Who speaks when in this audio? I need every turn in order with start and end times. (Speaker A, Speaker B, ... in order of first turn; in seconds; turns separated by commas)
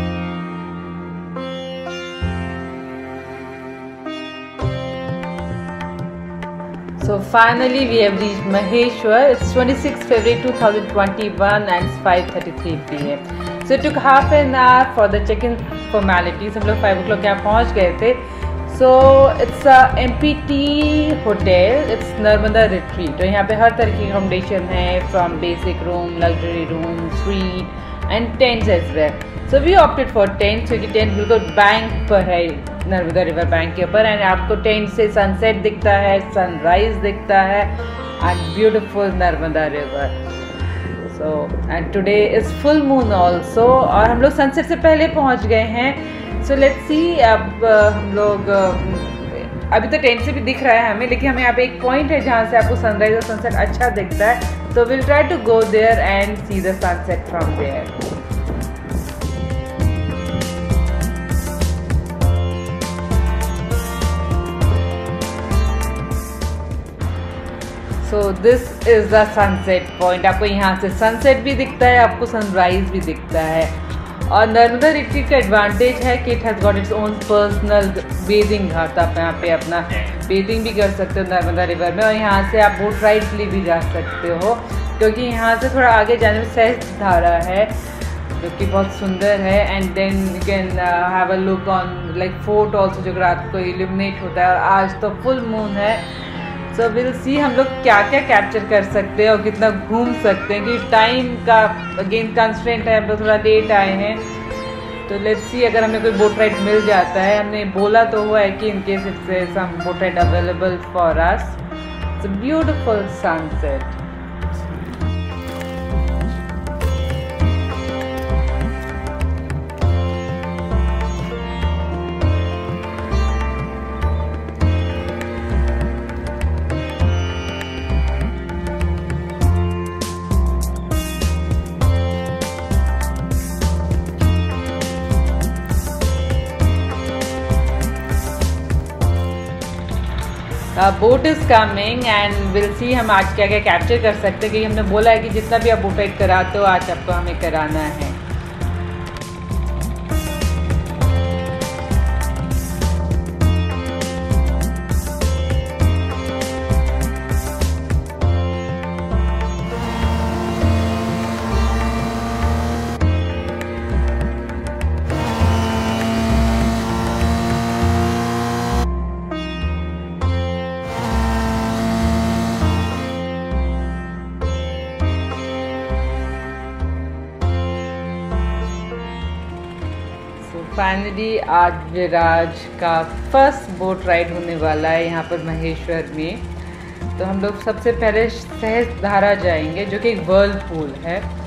Speaker A: 7.0-40.2, Speaker A: 41.0-57.9, Speaker A: 68.0-87.8, Speaker A: 88.3-104.3, Speaker A: 105.1-111.6, Speaker A: 112.2-114.0, Speaker A: 140.8-148.2, Speaker A: 180.4-186.5, Speaker A: 187.1-191.3